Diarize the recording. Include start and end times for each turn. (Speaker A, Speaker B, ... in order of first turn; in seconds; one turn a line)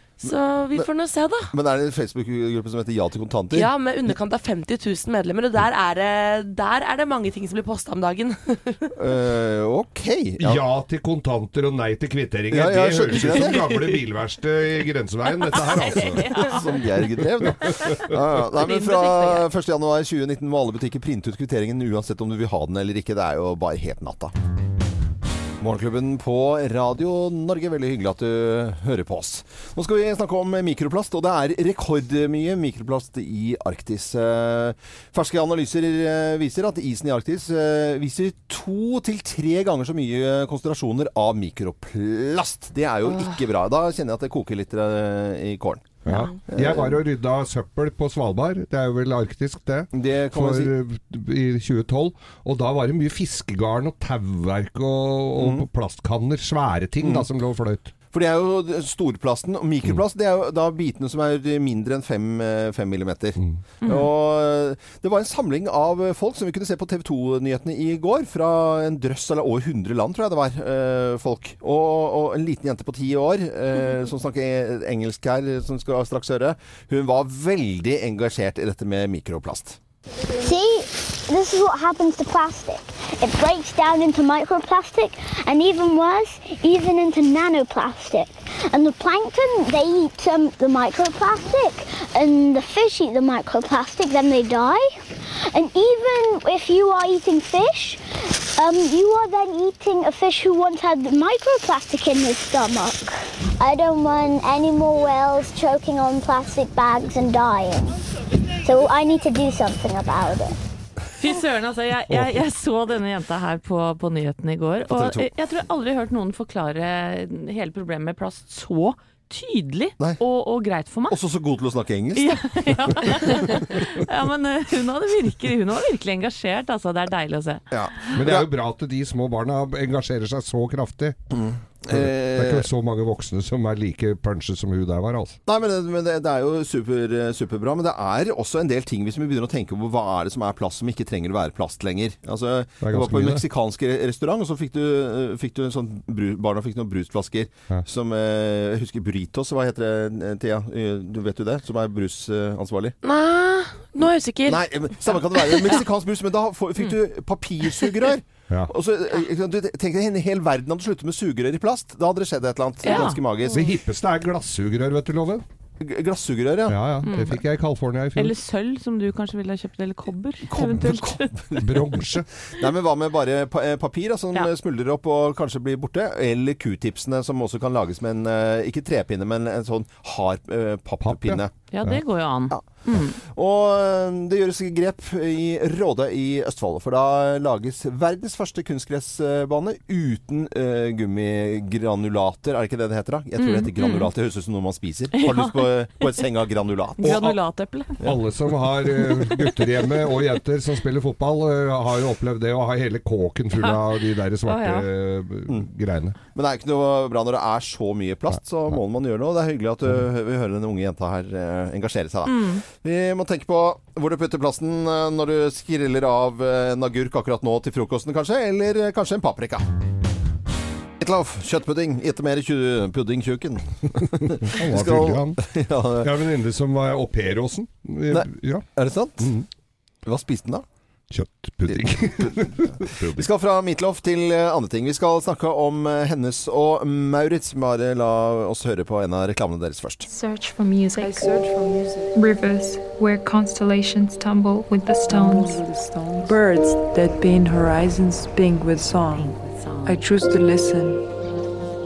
Speaker A: 0.2-1.5
Speaker B: 0.2-0.9
Speaker B: 1.5-3.7
Speaker A: 3.5-8.9
Speaker B: 8.9-10.6
Speaker C: 10.4-16.3
Speaker B: 12.5-13.8
Speaker D: 15.5-16.6
Speaker B: 16.2-24.3
Speaker C: 17.4-18.1
Speaker D: 18.5-19.4
Speaker B: 25.6-47.0
Speaker C: 46.0-57.9
Speaker B: 49.9-50.7
Speaker B: 55.4-55.6
Speaker B: 57.0-57.2
Speaker B: 58.1-79.8
Speaker E: 80.3-108.0
Speaker E: 108.6-110.5
Speaker D: 111.2-121.2
Speaker B: 114.9-115.3
Speaker B: 121.1-123.8
Speaker D: 122.1-128.1
Speaker B: 127.7-128.5
Speaker C: 128.1-131.2
Speaker B: 131.3-132.7
Speaker C: 131.9-135.4
Speaker B: 135.4-153.0
Speaker C: 142.8-143.4
Speaker A: 153.0-155.8
Speaker B: 154.4-163.7
Speaker D: 162.8-163.2
Speaker C: 163.5-165.4
Speaker B: 165.8-167.0
Speaker C: 166.7-168.3
Speaker D: 167.0-167.3
Speaker D: 168.2-171.3
Speaker B: 170.5-181.5
Speaker C: 171.6-172.2
Speaker C: 181.0-182.0
Speaker D: 181.7-183.2
Speaker B: 182.5-197.3
Speaker D: 193.4-194.1
Speaker D: 195.1-196.0
Speaker D: 197.0-198.0
Speaker C: 197.0-197.4
Speaker C: 198.0-206.2
Speaker D: 204.4-204.8
Speaker B: 206.3-219.6
Speaker D: 212.2-212.6
Speaker B: 221.0-226.1
Speaker C: 224.3-225.4
Speaker C: 226.0-228.7
Speaker B: 228.1-229.3
Speaker C: 229.2-229.4
Speaker B: 230.0-230.6
Speaker C: 231.1-233.3
Speaker B: 231.7-240.1
Speaker F: 240.1-241.3
Speaker G: 240.9-242.2
Speaker F: 242.1-245.6
Speaker G: 245.1-249.3
Speaker D: 249.1-250.0
Speaker G: 249.8-251.1